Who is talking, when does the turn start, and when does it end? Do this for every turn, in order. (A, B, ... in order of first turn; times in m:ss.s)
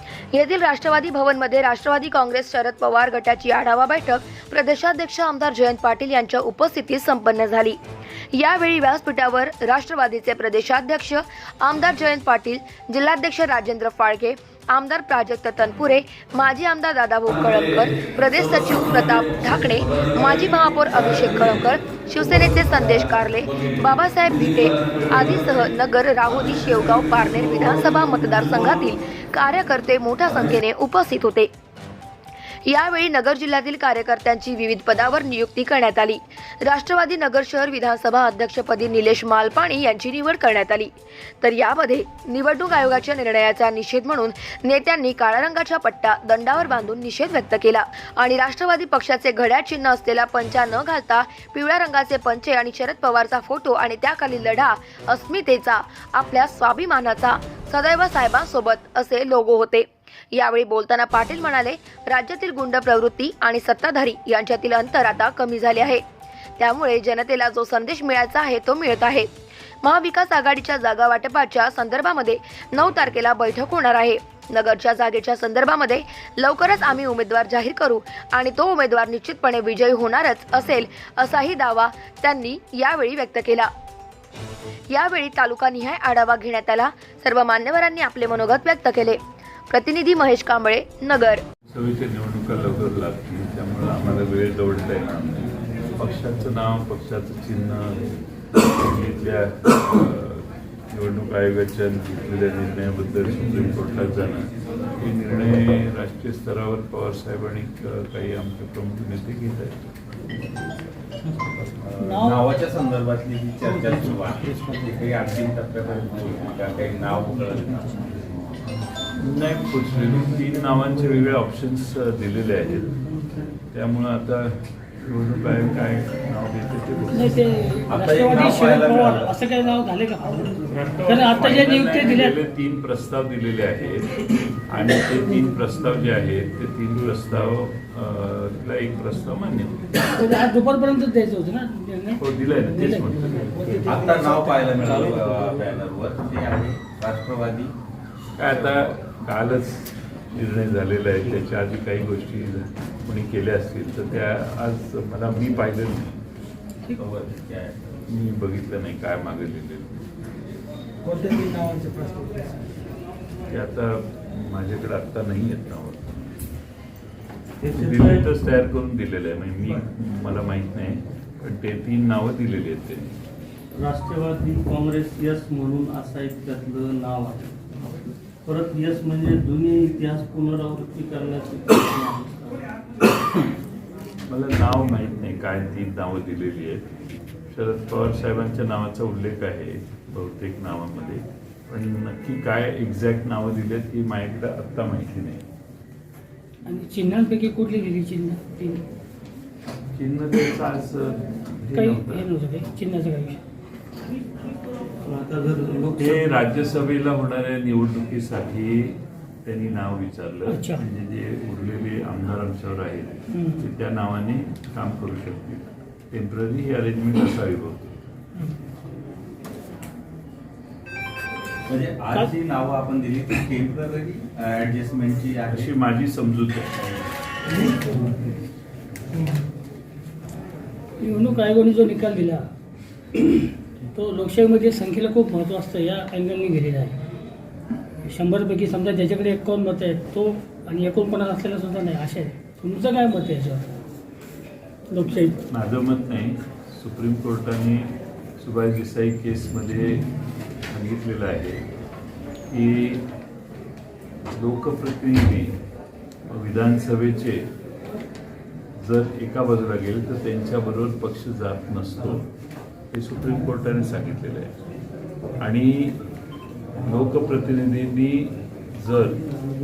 0:00.3-0:07.8 A
0:08.3-0:31.5 A
0:32.7-1:06.0 A
1:06.6-1:09.3 A
1:09.8-1:23.7 A
1:24.9-1:29.2 A
1:29.7-1:31.4 A
1:31.7-1:49.8 B
1:51.7-1:58.5 C
1:52.0-1:52.5 D
1:53.8-1:55.0 E
1:59.2-2:03.0 B
2:03.7-2:07.3 B
2:07.2-2:12.3 D
2:07.9-2:09.4 C
2:10.7-2:19.9 B
2:20.0-2:25.2 D
2:22.2-2:24.0 B
2:23.9-2:27.7 C
2:24.8-2:25.6 E
2:28.4-2:36.2 B
2:37.0-2:37.9 C
2:38.1-2:40.0 B
2:41.1-2:41.9 E
2:41.9-2:42.4 D
2:43.5-2:46.2 B
2:47.6-2:48.3 E
2:47.7-2:53.2 B
2:53.7-2:57.6 E
2:58.4-3:02.6 E
3:04.3-3:06.9 B
3:07.5-3:15.4 B
3:16.6-3:18.8 D
3:20.0-3:22.3 B
3:21.8-3:23.4 D
3:25.0-3:26.4 E
3:26.0-3:38.0 B
3:30.5-3:30.8 D
3:33.4-3:33.6 D
3:41.7-3:45.7 C
3:45.5-3:46.7 B
3:51.0-3:52.5 D
3:53.1-3:57.0 D
3:58.0-4:03.7 D
4:04.9-4:05.4 D
4:05.5-4:10.1 B
4:10.7-4:11.6 B
4:12.5-4:13.0 B
4:14.3-4:15.6 B
4:16.3-4:17.5 B
4:18.8-4:22.3 B
4:22.9-4:24.5 B
4:25.4-4:26.0 B
4:26.8-4:29.2 B